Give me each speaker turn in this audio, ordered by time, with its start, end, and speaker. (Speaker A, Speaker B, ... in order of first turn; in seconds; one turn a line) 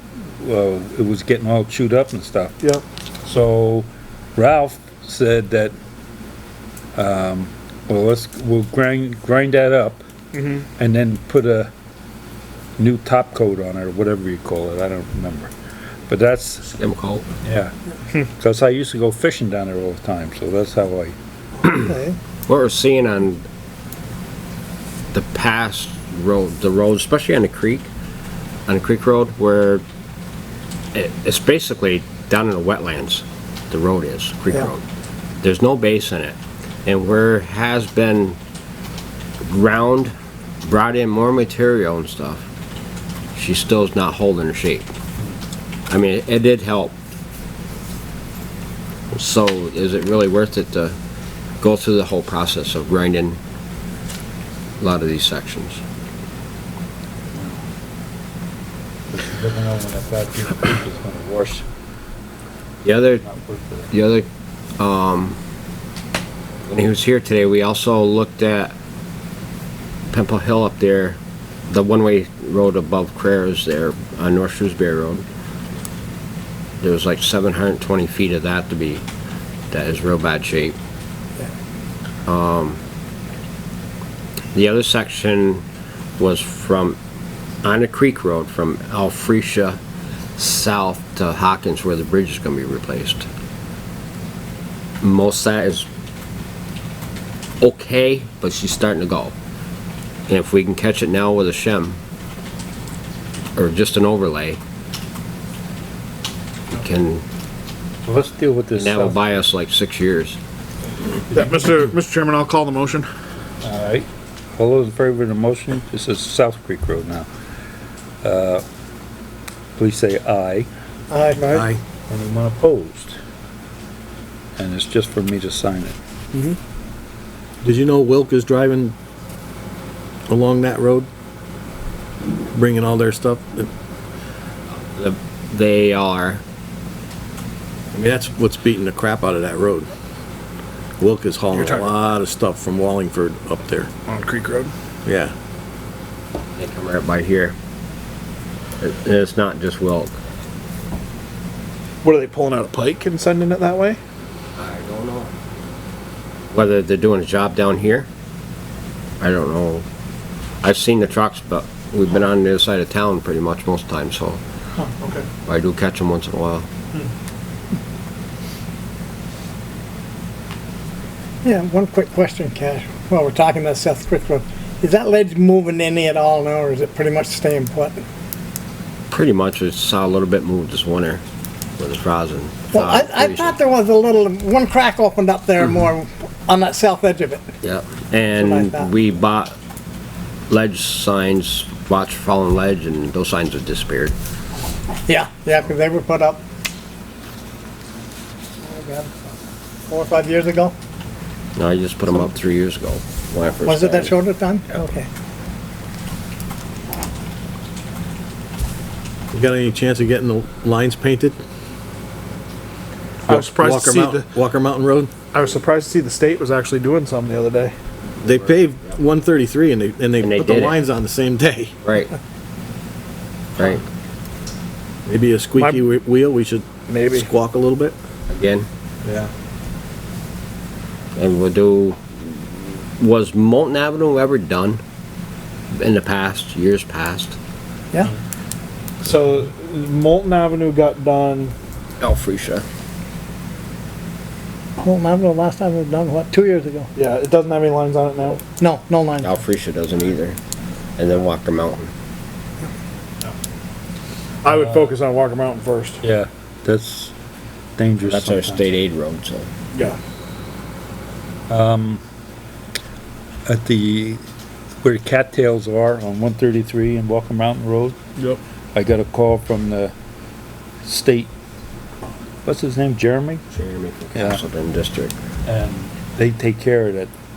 Speaker A: 0.4-2.5
Speaker A: 3.2-5.7
Speaker A: 7.0-10.0
Speaker B: 10.3-10.7
Speaker A: 10.8-11.7
Speaker A: 12.8-15.5
Speaker A: 16.1-16.7
Speaker C: 16.6-17.2
Speaker A: 17.4-17.7
Speaker A: 18.4-21.1
Speaker D: 21.6-22.1
Speaker C: 22.5-23.4
Speaker C: 25.1-27.9
Speaker C: 28.7-29.8
Speaker C: 30.9-34.8
Speaker C: 35.4-38.4
Speaker C: 39.5-40.1
Speaker C: 40.6-42.5
Speaker C: 43.4-44.9
Speaker C: 45.9-47.0
Speaker C: 49.1-50.9
Speaker C: 51.6-53.4
Speaker C: 54.8-55.8
Speaker A: 59.1-61.6
Speaker C: 62.8-63.2
Speaker A: 63.2-63.9
Speaker C: 63.9-64.3
Speaker C: 64.8-65.4
Speaker C: 66.7-68.8
Speaker C: 70.1-71.2
Speaker C: 71.7-75.2
Speaker C: 76.8-79.0
Speaker C: 79.7-80.8
Speaker C: 82.3-82.8
Speaker C: 84.5-85.6
Speaker C: 86.2-87.0
Speaker C: 87.6-89.8
Speaker C: 90.4-93.3
Speaker C: 95.0-95.9
Speaker C: 97.6-99.3
Speaker C: 100.3-102.0
Speaker C: 103.5-104.6
Speaker C: 106.7-107.2
Speaker A: 108.0-109.2
Speaker C: 108.7-110.4
Speaker B: 111.3-113.1
Speaker A: 113.6-117.3
Speaker A: 118.2-118.6
Speaker A: 119.8-120.7
Speaker D: 121.1-121.7
Speaker E: 121.4-121.8
Speaker A: 122.1-123.2
Speaker A: 124.6-126.0
Speaker E: 127.6-128.9
Speaker E: 130.3-131.1
Speaker E: 132.5-133.7
Speaker C: 134.9-136.4
Speaker E: 137.9-139.9
Speaker E: 141.0-143.9
Speaker B: 141.5-141.9
Speaker B: 144.1-144.7
Speaker E: 145.1-145.3
Speaker C: 146.5-147.5
Speaker C: 148.8-150.1
Speaker B: 152.0-154.0
Speaker C: 154.6-155.3
Speaker C: 156.5-158.1
Speaker C: 159.2-159.8
Speaker C: 160.6-164.4
Speaker B: 165.0-165.2
Speaker C: 165.4-166.7
Speaker D: 171.4-178.0
Speaker C: 179.1-181.2
Speaker C: 181.8-183.6
Speaker D: 182.7-187.4
Speaker C: 187.6-189.5
Speaker D: 188.3-188.9
Speaker C: 190.5-194.1
Speaker D: 195.1-196.4
Speaker D: 198.6-199.3
Speaker D: 199.9-200.7
Speaker C: 201.6-204.2
Speaker D: 203.6-205.1
Speaker E: 209.3-211.4
Speaker B: 213.2-214.3
Speaker E: 213.3-215.1
Speaker B: 215.3-217.7
Speaker E: 218.2-221.7
Speaker C: 220.2-220.8
Speaker C: 221.8-222.1
Speaker C: 223.6-223.8
Speaker E: 225.1-227.9
Speaker B: 225.6-225.9
Speaker B: 226.9-227.3
Speaker C: 228.3-228.7
Speaker C: 231.2-234.8
Speaker C: 235.7-237.4
Speaker B: 239.0-241.5
Speaker C: 242.0-242.7
Speaker D: 244.8-246.9
Speaker B: 246.9-248.4
Speaker D: 248.6-249.3
Speaker C: 249.2-250.4
Speaker C: 251.0-251.9
Speaker B: 254.4-256.0
Speaker A: 254.5-254.9
Speaker A: 256.0-257.1
Speaker A: 257.8-258.7
Speaker C: 258.0-259.5
Speaker B: 259.7-260.0
Speaker A: 261.5-262.0
Speaker A: 263.4-264.2
Speaker A: 264.8-268.0
Speaker A: 268.7-269.9
Speaker A: 270.8-271.3
Speaker A: 272.4-273.4
Speaker C: 273.5-275.2
Speaker A: 274.1-274.4
Speaker A: 275.4-277.1